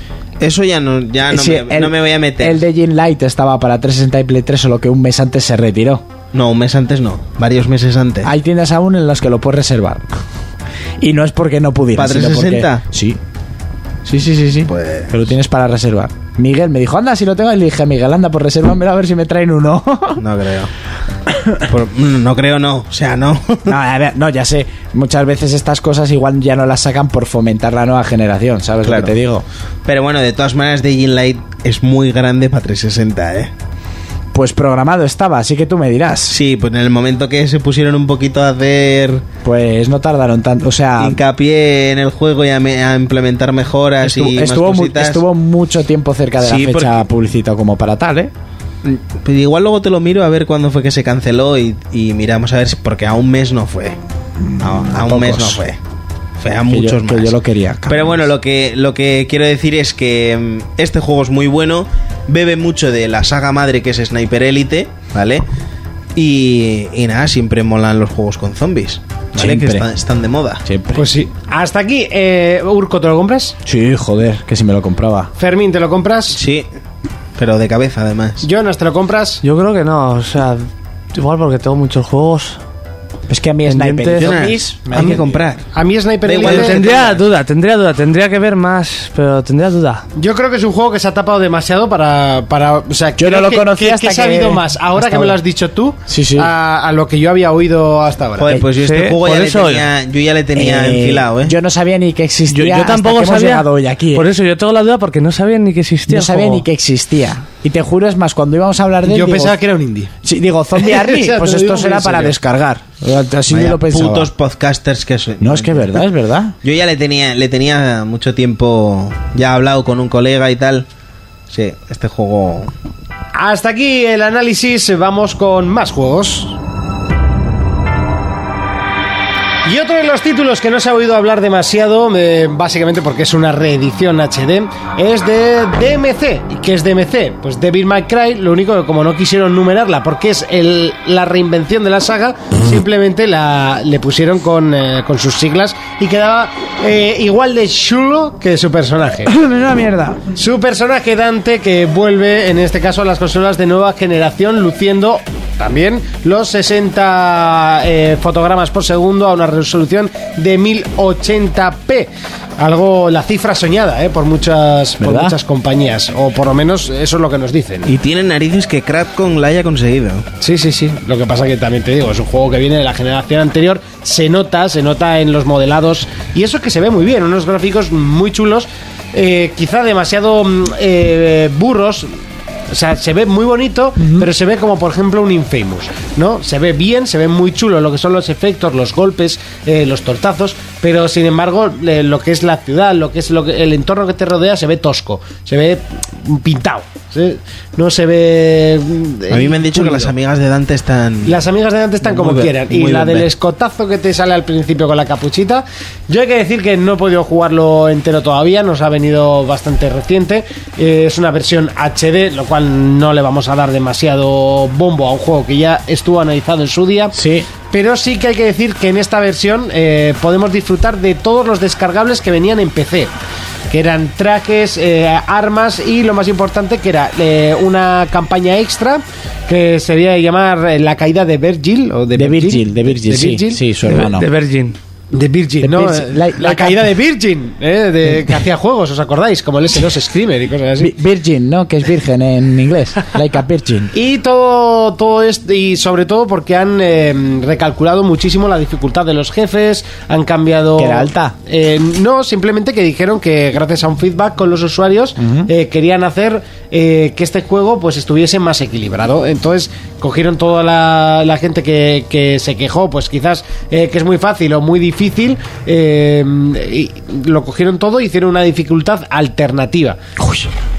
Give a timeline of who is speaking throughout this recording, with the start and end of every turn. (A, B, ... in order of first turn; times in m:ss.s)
0:00.4-0:02.6 A
0:01.3-0:06.0 B
0:06.3-0:08.3 A
0:08.2-0:10.2 B
0:11.0-0:13.2 B
0:11.9-0:12.8 A
0:14.0-0:20.2 B
0:14.6-0:15.2 A
0:20.2-0:20.7 A
0:21.3-0:21.6 B
0:21.7-0:23.8 A
0:23.6-0:29.4 B
0:28.8-0:29.1 A
0:29.8-0:33.5 A
0:34.3-0:36.4 B
0:36.3-0:39.2 A
0:39.4-0:41.2 B
0:41.0-0:45.2 A
0:44.0-0:48.3 B
0:46.4-0:47.0 A
0:48.8-0:54.0 A
0:54.4-0:55.6 B
0:54.6-0:55.8 A
0:56.4-0:57.3 A
0:56.7-0:58.3 B
0:57.9-1:05.4 A
1:06.1-1:10.6 A
1:09.4-1:09.9 B
1:10.6-1:11.1 B
1:11.0-1:13.6 C
1:13.6-1:15.3 B
1:15.4-1:16.4 C
1:16.3-1:16.6 A
1:17.4-1:18.4 A
1:18.4-1:19.4 C
1:19.4-1:22.6 D
1:23.3-1:25.4 B
1:23.6-1:24.3 D
1:24.2-1:25.7 A
1:25.7-1:26.8 C
1:26.2-1:27.2 A
1:26.4-1:30.0 D
1:30.2-1:38.6 C
1:33.2-1:35.4 B
1:36.1-1:36.5 B
1:38.4-1:41.5 A
1:38.8-1:39.9 D
1:40.5-1:44.3 B
1:42.5-1:46.6 D
1:46.1-1:49.6 B
1:49.1-1:50.1 C
1:50.2-1:54.3 B
1:50.8-1:52.3 C
1:53.5-1:56.0 A
1:55.4-1:56.6 B
1:56.6-2:00.9 A
2:01.5-2:02.7 A
2:03.3-2:06.6 C
2:09.6-2:29.3 C
2:29.2-2:30.2 B
2:30.4-2:47.9 C
2:45.0-2:45.4 B
2:47.8-2:50.3 A
2:50.4-3:02.1 C
3:02.7-3:20.1 C
3:04.0-3:04.2 B
3:19.3-3:21.4 A
3:21.2-3:37.1 C
3:22.0-3:23.3 A
3:37.1-3:37.5 B
3:37.7-3:43.1 C
3:43.7-3:53.6 C
3:52.1-3:54.3 B
3:53.9-3:54.8 D
3:55.1-4:00.9 C
3:55.6-3:56.8 B
3:58.0-3:58.4 B
4:00.8-4:03.9 B
4:03.9-4:30.0 C
4:10.8-4:11.3 B
4:15.2-4:15.5 B
4:30.2-4:30.5 B